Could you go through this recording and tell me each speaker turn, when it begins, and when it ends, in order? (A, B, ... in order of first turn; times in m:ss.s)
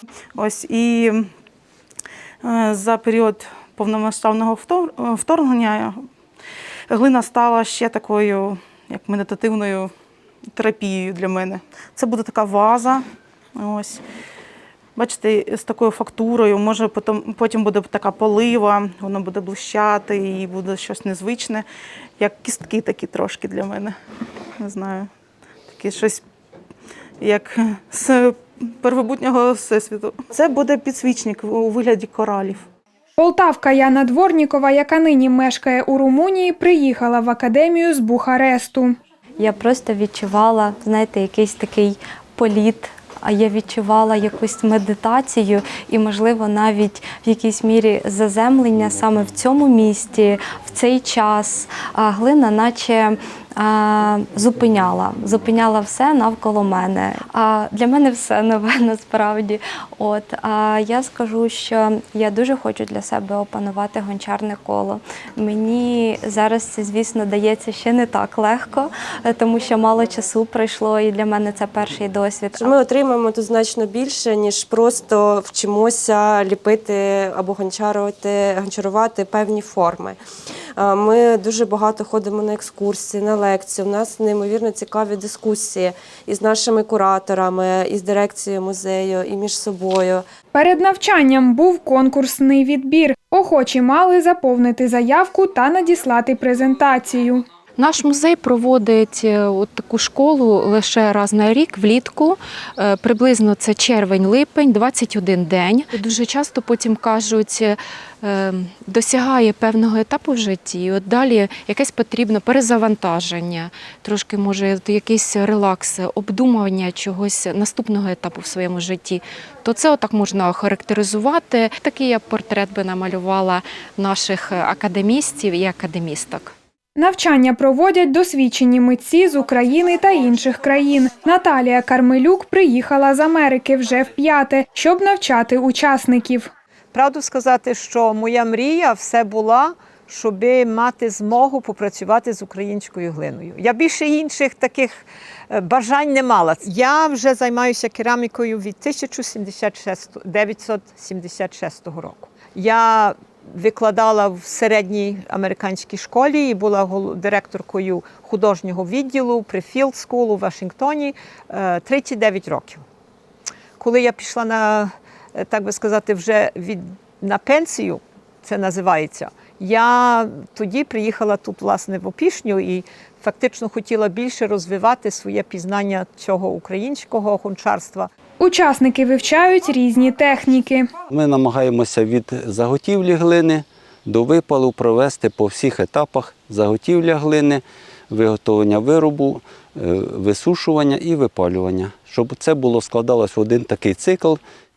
0:00.3-0:01.3 A
0:02.4-0:06.0 A
0:06.9-0:09.9 A
0:10.6-0:13.0 A
0:13.6-0:14.0 A
0:15.0-0:21.6 A
0:22.2-0:23.9 A
0:24.6-0:25.1 A
0:25.7-0:26.2 A
0:27.2-0:32.6 A
0:33.2-0:38.9 B
0:39.4-1:12.8 C
1:12.6-1:20.2 D
1:20.8-1:30.2 D
1:30.5-1:37.4 B
1:37.8-2:06.5 E
2:07.0-2:16.5 B
2:16.9-2:42.8 F
2:43.8-2:58.1 F
2:58.4-3:00.9 B
3:01.1-3:14.4 G